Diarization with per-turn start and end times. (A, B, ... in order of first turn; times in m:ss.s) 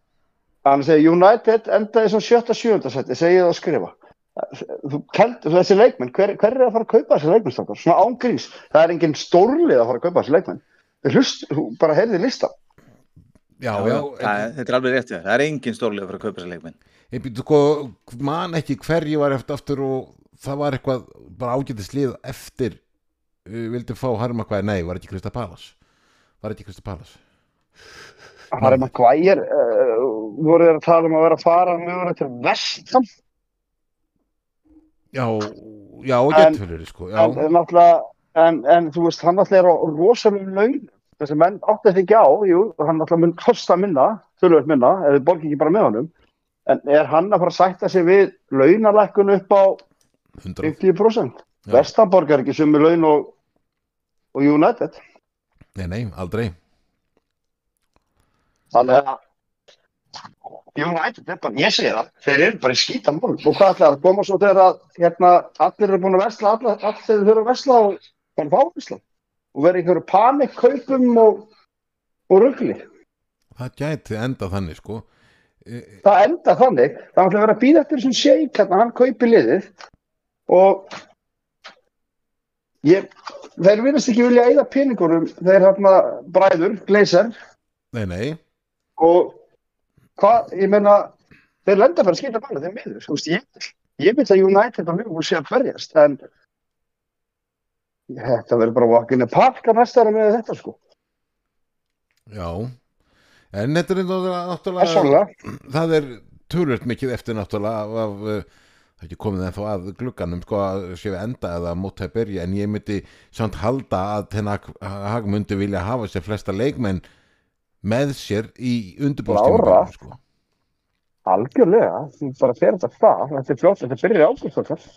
0:00.6-0:12.5 A
0:13.6-0:14.5 B
0:13.8-0:16.8 C
0:17.1-0:22.8 B
0:23.5-0:25.8 B
0:26.4-0:27.2 B
0:28.5-0:33.0 A
0:28.6-0:28.9 B
0:35.1-0:37.4 B
0:36.3-0:36.6 A
0:37.2-0:46.1 A
0:46.7-0:49.8 A
0:50.4-0:50.8 B
0:50.6-0:53.3 A
0:54.3-0:55.0 A
0:55.8-0:56.5 B
0:58.7-0:59.2 A
1:00.8-1:09.0 A
1:09.5-1:11.5 A
1:12.3-1:12.8 A
1:13.6-1:15.1 B
1:15.6-1:16.0 B
1:16.0-1:19.7 A
1:20.5-1:20.9 A
1:22.8-1:27.3 A
1:27.9-1:28.4 B
1:29.0-1:29.4 A
1:30.2-1:31.1 A
1:31.7-1:36.2 A
1:38.1-1:40.8 A
1:42.3-1:42.7 B
1:43.5-1:48.5 B
1:44.8-1:45.3 A
1:49.0-1:57.0 B
1:57.8-2:00.2 B
1:59.3-1:59.9 A
2:01.3-2:04.8 A